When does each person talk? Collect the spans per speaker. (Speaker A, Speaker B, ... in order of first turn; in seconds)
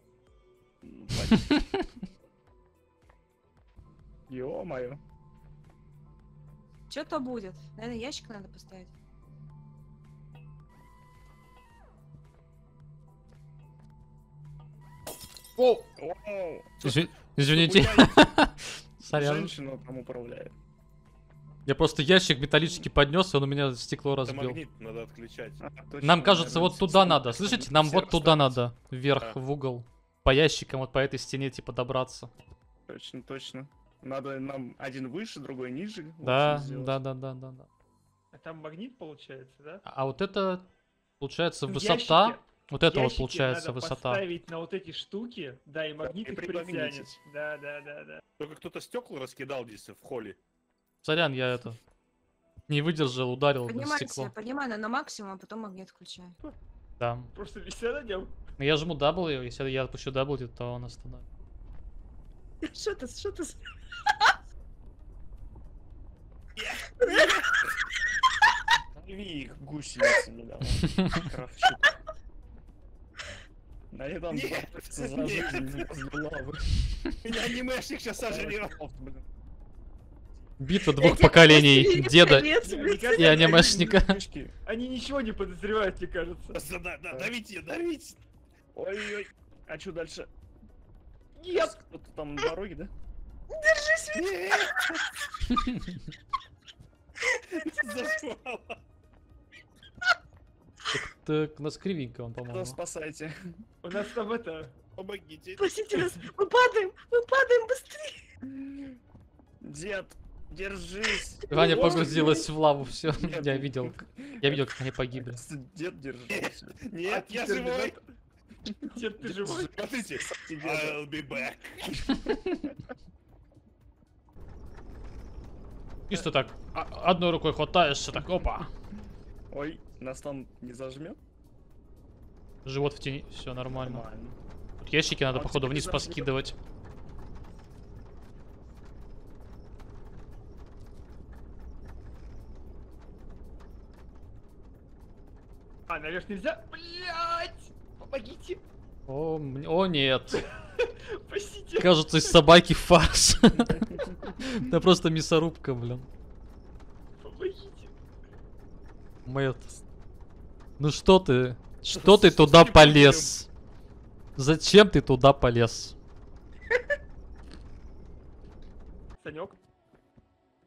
Speaker A: 0.8-1.6, 4.3-5.0, 16.0-16.9, 17.4-18.2, 19.1-20.5, 25.6-28.6, 32.9-37.0, 46.0-47.2, 68.9-71.9, 73.9-76.7, 78.3-79.2, 82.8-84.5, 88.7-90.3, 91.5-92.9, 102.5-103.3, 108.5-109.0, 109.6-112.4, 113.2-116.8, 118.7-121.0, 129.5-131.2, 133.7-134.4, 135.3-136.3, 161.9-163.2
Speaker B: 1.3-1.6, 15.6-15.9, 16.8-19.5, 21.6-24.6, 26.0-32.3, 36.2-37.7, 39.8-40.7, 41.2-44.2, 51.0-51.8, 52.7-54.3, 57.0-57.3, 58.6-61.2, 80.6-84.2, 100.9-102.8, 111.5-115.4, 126.1-128.7, 132.6-134.1, 134.8-136.6, 149.1-150.4, 151.8-156.1, 159.2-159.7, 160.8-163.5, 164.3-165.9
Speaker C: 6.9-8.9, 53.6-56.4, 62.6-64.3, 67.0-67.4, 81.0-83.3, 93.5-95.3, 97.3-98.2, 105.6-108.2, 111.5-112.3
Speaker D: 24.2-25.6, 48.4-50.4, 66.5-67.3, 74.3-75.8, 77.2-78.8, 86.5-88.2, 94.1-94.9, 97.5-98.8, 105.0-105.7, 116.3-117.9, 119.7-122.2
Speaker E: 38.3-39.8, 41.7-48.2, 57.3-58.3, 82.6-83.7, 84.6-86.6, 91.4-91.7, 103.8-104.7, 117.0-118.0, 118.9-119.7, 145.9-148.6, 150.3-152.3, 157.2-157.9, 169.2-169.6